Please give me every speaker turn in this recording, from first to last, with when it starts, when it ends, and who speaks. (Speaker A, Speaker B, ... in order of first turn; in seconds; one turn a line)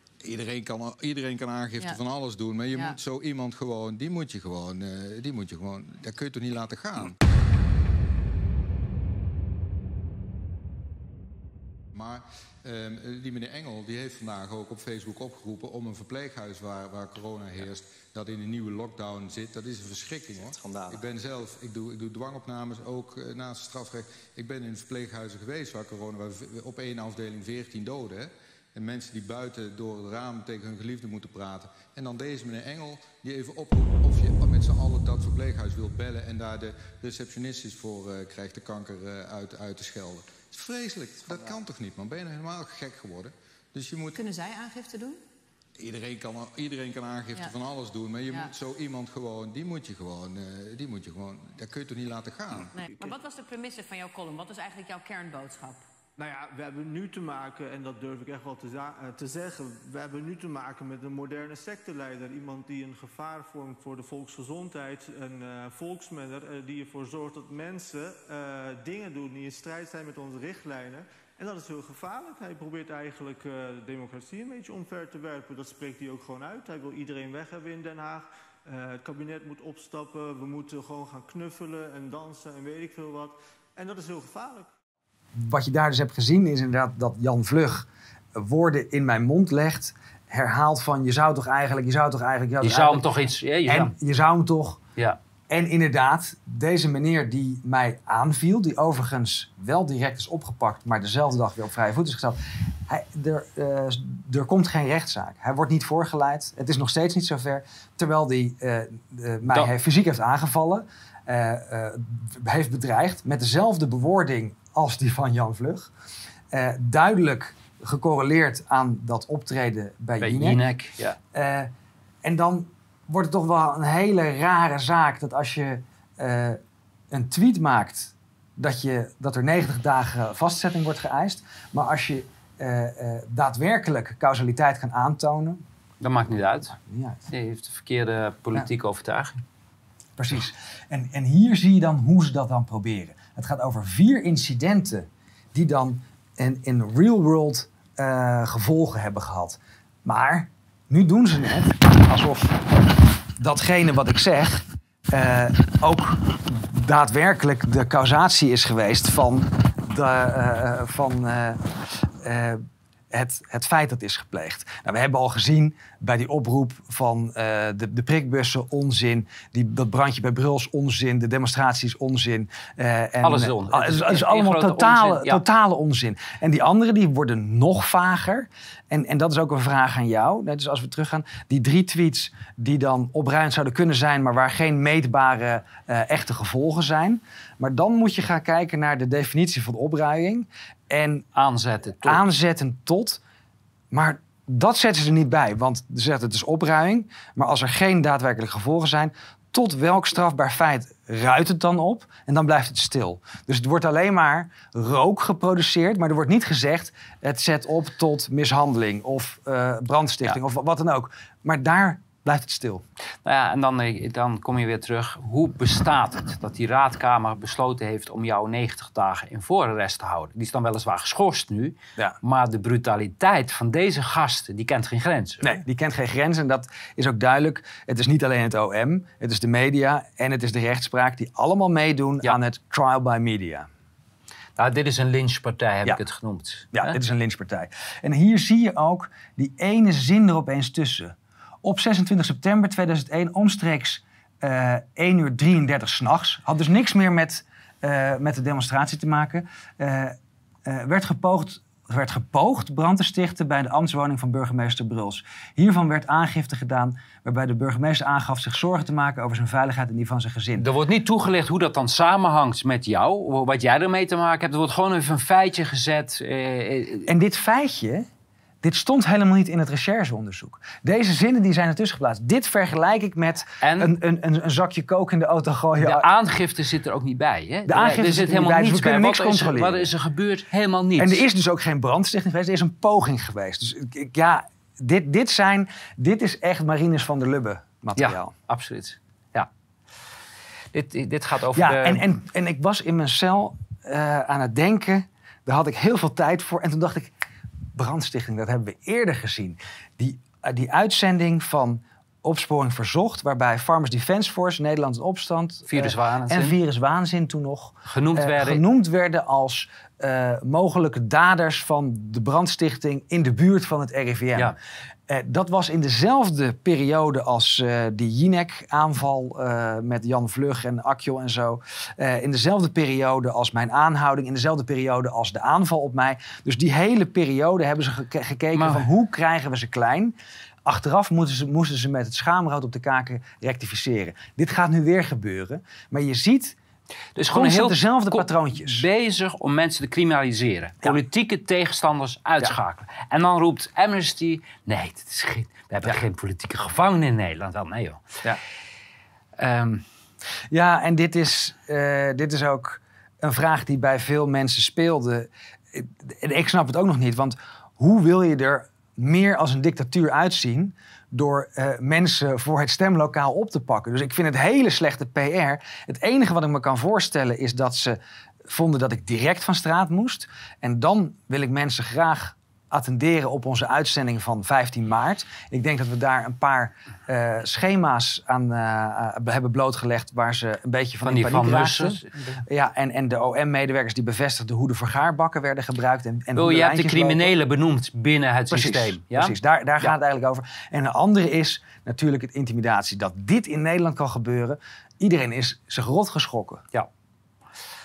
Speaker A: 0.2-7.2
Speaker B: 2.7-3.0
Speaker A: 11.9-44.2
Speaker B: 44.1-45.2
Speaker A: 45.8-52.7
Speaker B: 52.7-55.9
Speaker C: 56.2-84.7
Speaker D: 85.3-93.1
Speaker E: 92.6-93.9
Speaker D: 93.7-94.8
Speaker D: 95.5-115.9
Speaker D: 116.5-120.6
Speaker E: 120.2-121.2
Speaker D: 121.3-121.7
Speaker D: 122.2-126.6
Speaker D: 127.1-135.6
Speaker E: 136.0-136.8
Speaker D: 136.8-137.2
Speaker E: 137.3-139.4
Speaker D: 140.2-152.8
Speaker D: 153.4-191.3
Speaker E: 173.2-175.4
Speaker E: 191.3-192.2
Speaker D: 192.0-193.2
Speaker D: 193.9-212.8
Speaker E: 213.2-225.5
Speaker D: 225.4-233.7
Speaker E: 234.6-237.0
Speaker D: 236.7-260.6
Speaker E: 260.6-267.1
Speaker D: 267.1-268.1
Speaker D: 268.6-276.1
Speaker E: 273.6-273.9
Speaker E: 275.8-281.2
Speaker D: 277.7-279.9
Speaker D: 281.0-288.3
Speaker E: 288.0-289.5
Speaker E: 290.7-292.0
Speaker D: 291.6-297.1
Speaker D: 297.7-314.6
Speaker E: 305.7-306.6
Speaker E: 307.9-308.6
Speaker D: 315.1-330.1
Speaker E: 328.6-328.9
Speaker D: 330.6-336.6
Speaker E: 337.1-348.0
Speaker D: 337.3-338.9
Speaker E: 349.4-349.9
Speaker D: 350.5-387.3
Speaker E: 381.0-382.4
Speaker E: 386.4-389.9
Speaker D: 388.5-396.6